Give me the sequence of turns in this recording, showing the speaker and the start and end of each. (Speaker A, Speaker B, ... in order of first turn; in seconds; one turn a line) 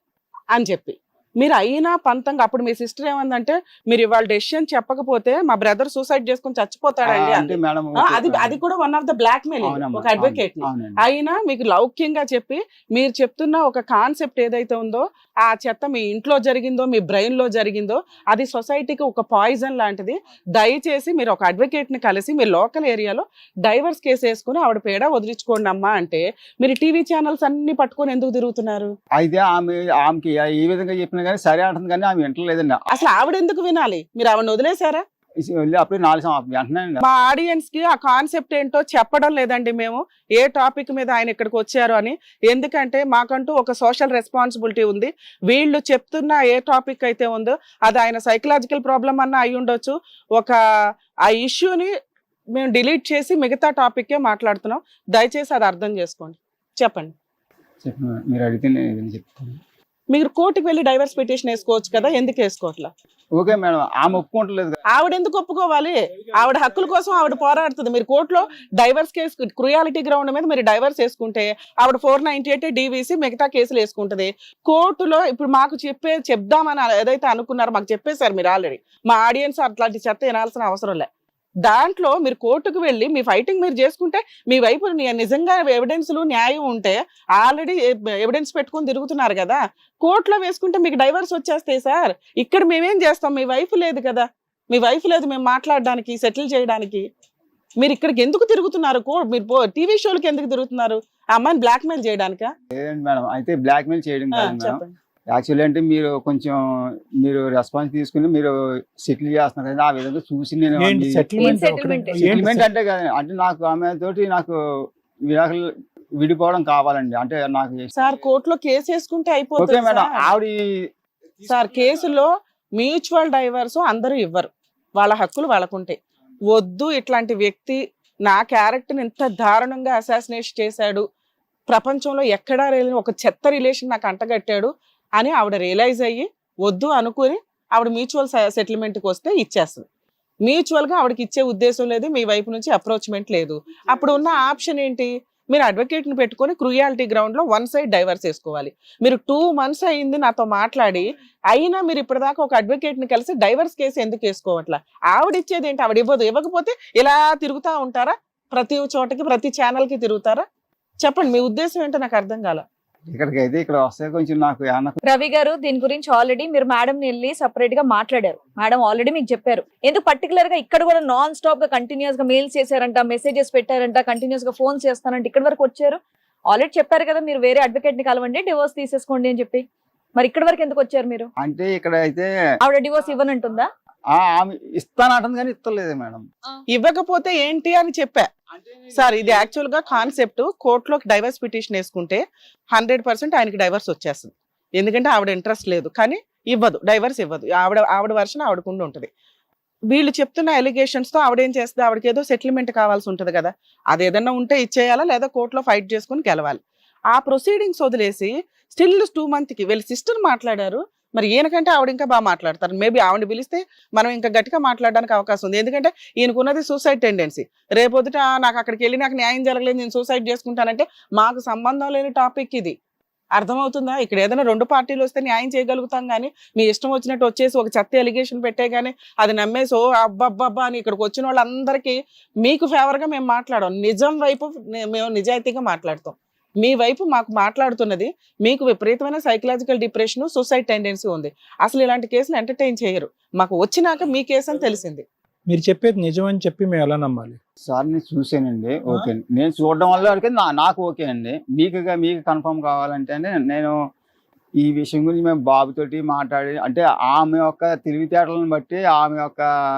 Speaker A: 0.5-7.6
Speaker B: 7.1-8.6
Speaker A: 8.1-28.9
Speaker B: 9.6-11.0
Speaker B: 29.2-32.8
Speaker A: 32.9-35.0
Speaker B: 35.4-37.0
Speaker A: 37.0-50.6
Speaker A: 51.3-51.9
Speaker A: 52.6-57.1
Speaker B: 57.8-59.6
Speaker A: 60.1-62.9
Speaker B: 63.4-64.8
Speaker A: 64.9-81.1
Speaker A: 81.7-97.0
Speaker A: 97.8-102.5
Speaker B: 102.7-106.6
Speaker A: 104.4-104.9
Speaker B: 107.2-111.5
Speaker C: 110.8-112.7
Speaker D: 111.4-112.3
Speaker B: 112.1-114.6
Speaker B: 115.3-115.7
Speaker B: 116.2-117.9
Speaker A: 118.0-120.3
Speaker B: 119.6-120.6
Speaker A: 121.5-126.0
Speaker A: 126.5-131.1
Speaker A: 131.7-139.8
Speaker A: 140.4-160.4
Speaker A: 161.0-162.6
Speaker B: 163.1-165.0
Speaker D: 165.1-179.7
Speaker D: 180.2-181.3
Speaker B: 181.4-182.3
Speaker D: 182.6-183.7
Speaker B: 184.1-186.2
Speaker A: 186.7-188.3
Speaker A: 188.9-192.2
Speaker A: 192.7-199.1
Speaker A: 199.9-222.8
Speaker A: 223.4-245.0
Speaker C: 245.5-247.4
Speaker B: 247.7-253.8
Speaker B: 254.6-259.4